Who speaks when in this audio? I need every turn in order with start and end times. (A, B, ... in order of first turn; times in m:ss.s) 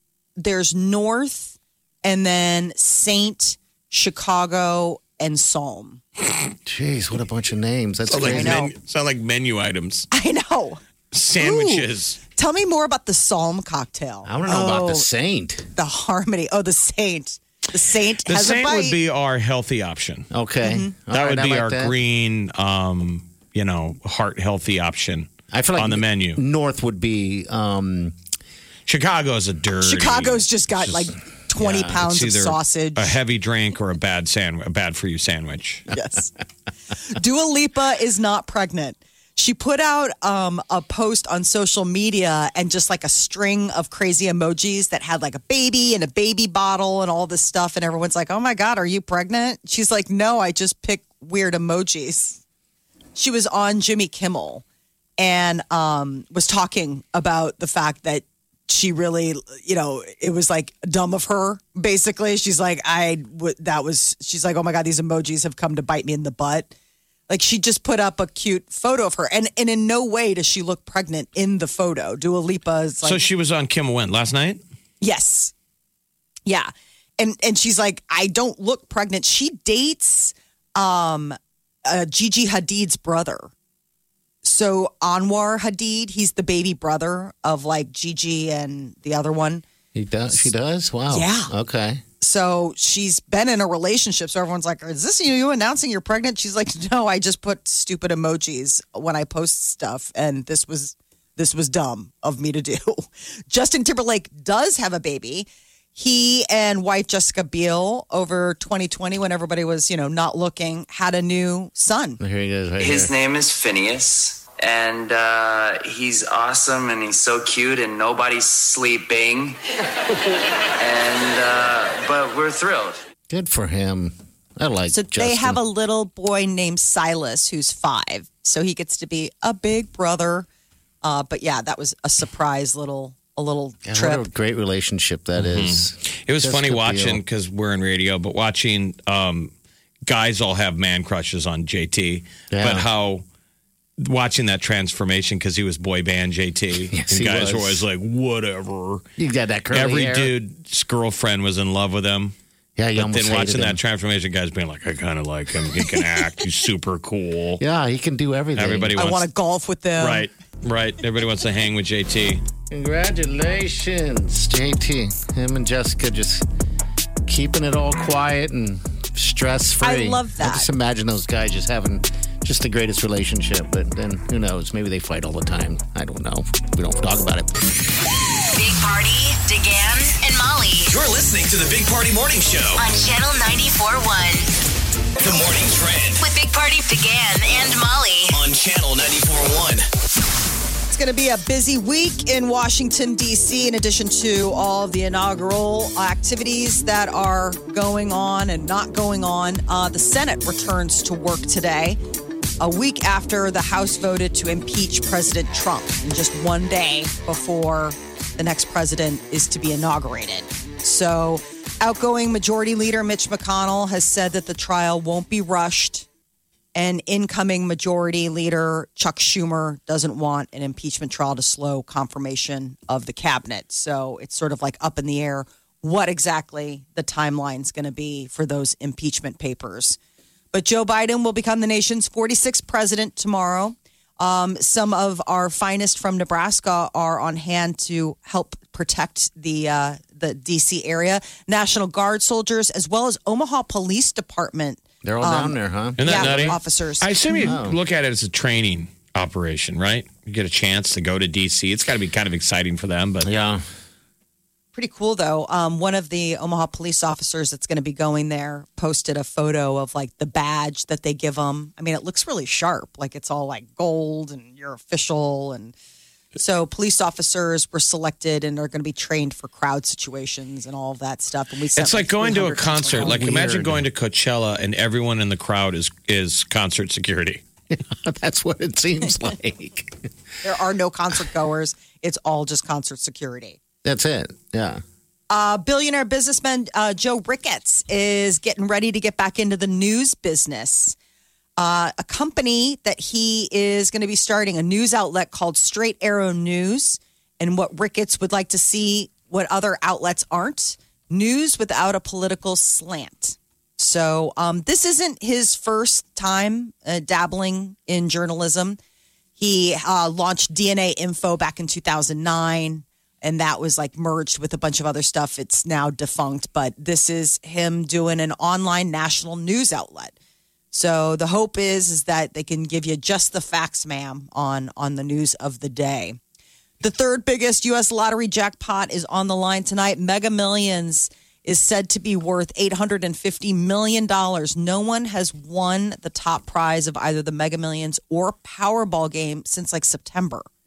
0:00.4-0:06.0 A
0:06.6-0:08.6 B
0:08.1-0:10.1 C
0:08.1-0:08.7 A
0:10.1-0:10.8 A
0:11.1-0:12.2 C
0:11.4-0:15.1 A
0:14.2-0:15.7 B
0:15.8-0:19.0 A
0:18.2-0:20.3 C
0:20.3-0:21.9 B
0:20.6-0:20.9 A
0:21.1-0:26.4 C
0:25.5-0:28.1 B
0:28.9-0:31.1 C
0:29.8-0:33.1 A
0:31.6-0:31.9 B
0:31.8-0:35.9 C
0:35.9-0:36.3 A
0:37.1-0:52.4 A
0:53.2-0:54.6 A
0:55.2-1:06.7 A
1:07.3-1:13.2 A
1:13.0-1:14.6 C
1:15.0-1:15.5 A
1:16.4-1:23.5 A
1:24.4-1:29.6 A
1:29.9-1:32.0 B
1:31.1-1:31.5 A
1:32.2-1:52.2 A
1:52.2-1:53.1 B
1:52.8-1:59.6 D
2:00.8-2:03.0 D
2:03.3-2:05.6 B
2:04.9-2:10.5 A
2:11.0-2:14.3 A
2:13.8-2:17.2 B
2:15.4-2:19.5 C
2:20.0-2:23.2 C
2:22.5-2:22.9 B
2:24.0-2:29.0 C
2:26.9-2:27.8 B
2:29.2-2:30.3 B
2:29.7-2:32.3 C
2:32.8-2:33.8 B
2:33.0-2:37.6 C
2:37.6-2:38.9 B
2:38.6-2:39.2 C
2:39.0-2:40.3 A
2:40.0-2:42.4 C
2:42.7-2:46.4 B
2:47.2-2:57.5 B
2:49.8-2:50.7 A
2:58.5-3:00.9 E
3:00.9-3:02.8 F
3:02.8-3:04.5 E
3:05.2-3:06.2 F
3:06.2-3:08.4 E
3:08.3-3:09.8 F
3:10.9-3:22.0 A
3:22.6-3:36.0 A
3:36.7-3:50.0 A
3:50.5-4:07.5 A
4:05.0-4:06.6 B
4:06.0-4:13.3 C
4:07.4-4:07.8 B
4:13.2-4:13.6 B
4:14.7-4:25.7 A
4:26.4-4:33.3 A
4:31.8-4:37.4 C
4:32.9-4:33.8 B
4:37.7-4:40.0 B
4:40.4-4:43.6 A
4:43.8-4:44.8 B
4:45.3-4:51.0 A
4:51.6-5:08.8 A
5:09.4-5:20.1 A
5:20.7-5:26.2 A
5:26.8-5:40.4 A